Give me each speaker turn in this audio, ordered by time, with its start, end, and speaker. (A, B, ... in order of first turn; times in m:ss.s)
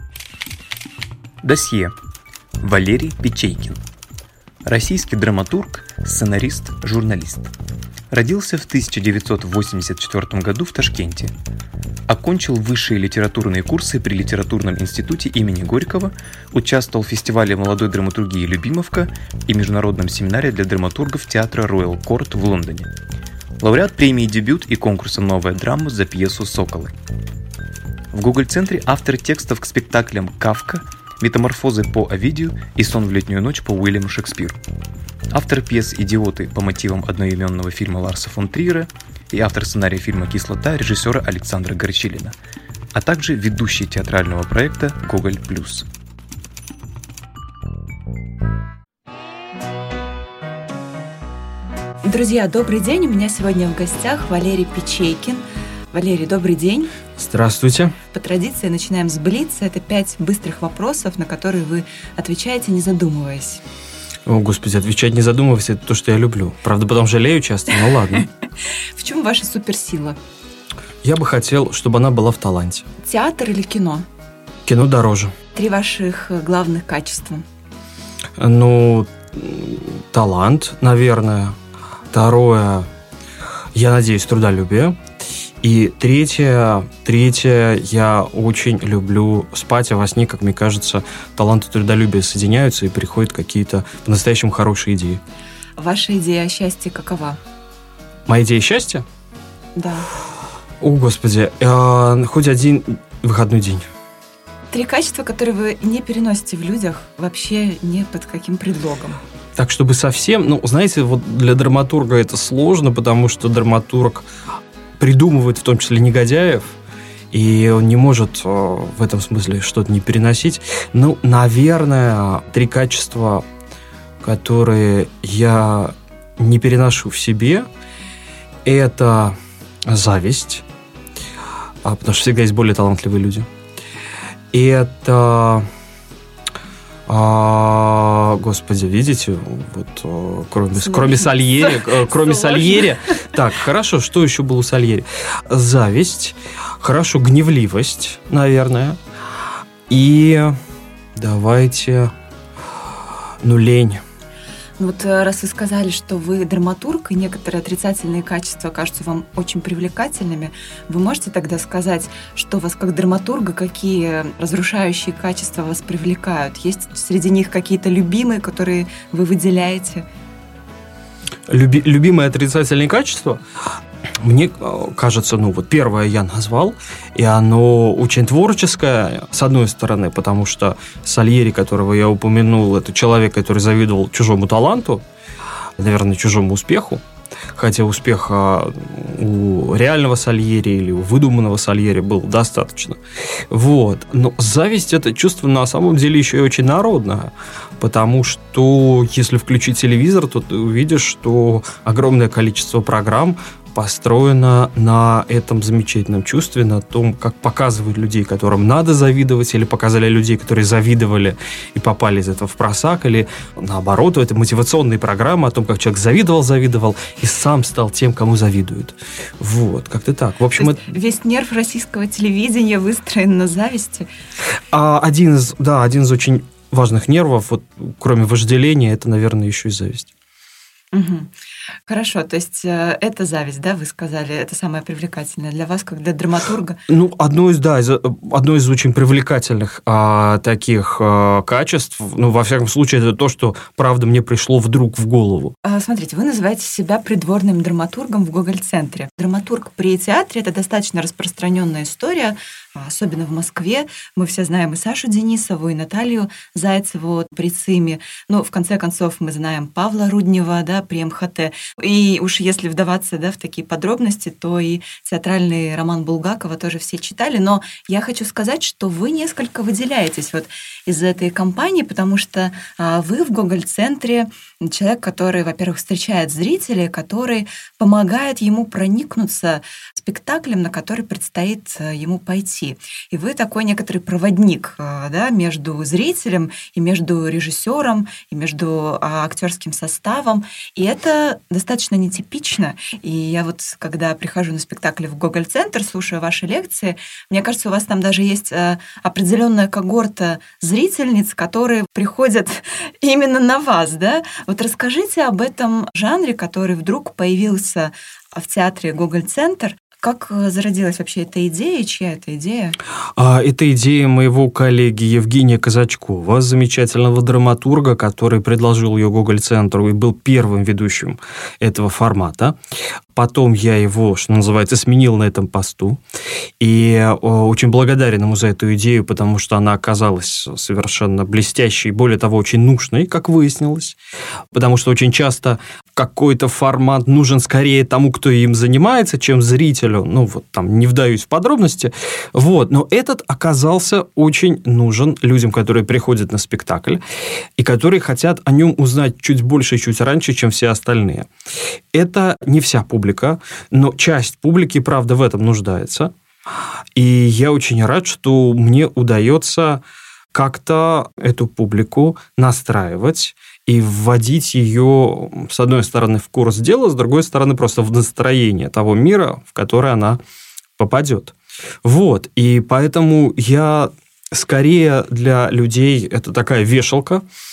0:01.4-0:02.0 A
0:02.6-0:03.8 A
0:04.7-0:07.5 A
0:08.1-0:11.3 A
0:12.1-0:22.9 A
0:23.6-0:27.0 A
0:28.1-0:34.6 A
0:35.3-0:42.4 A
0:42.9-0:45.8 A
0:52.0-0:56.9 B
0:57.2-0:58.0 C
0:58.1-1:03.6 B
1:04.3-1:08.3 C
1:08.9-1:10.2 B
1:11.0-1:12.9 C
1:13.0-1:14.1 B
1:14.7-1:15.4 C
1:15.5-1:17.4 B
1:18.4-1:21.6 C
1:22.1-1:22.9 C
1:23.7-1:25.0 C
1:25.6-1:35.2 C
1:35.8-1:37.4 B
1:38.3-1:39.0 C
1:39.8-1:40.1 B
1:40.8-1:43.9 C
1:44.7-1:49.2 B
1:49.6-1:54.3 C
1:55.0-1:56.8 C
1:57.3-2:03.5 C
2:04.2-2:07.7 C
2:08.6-2:10.6 C
2:11.8-2:13.5 C
2:14.5-2:15.7 C
2:17.1-2:29.0 C
2:20.7-2:23.3 B
2:29.9-2:30.6 C
2:31.2-2:32.1 C
2:33.4-2:34.0 C
2:34.8-2:50.0 B
2:51.5-2:53.4 C
2:54.2-3:05.0 C
3:05.8-3:07.0 C
3:07.5-3:13.0 C
3:13.5-3:40.9 C
3:40.6-3:44.1 B
3:44.7-3:50.1 C
3:50.9-3:51.3 B
3:51.9-3:56.8 B
3:56.9-4:05.6 C
4:05.6-5:12.8 B
5:13.2-5:22.6 C
5:23.1-5:26.0 C
5:26.6-5:34.0 C
5:34.5-5:47.0 C
5:47.6-5:51.3 C
5:51.9-5:56.1 C
5:57.0-5:59.8 C
6:00.3-6:10.2 C
6:10.8-6:17.2 C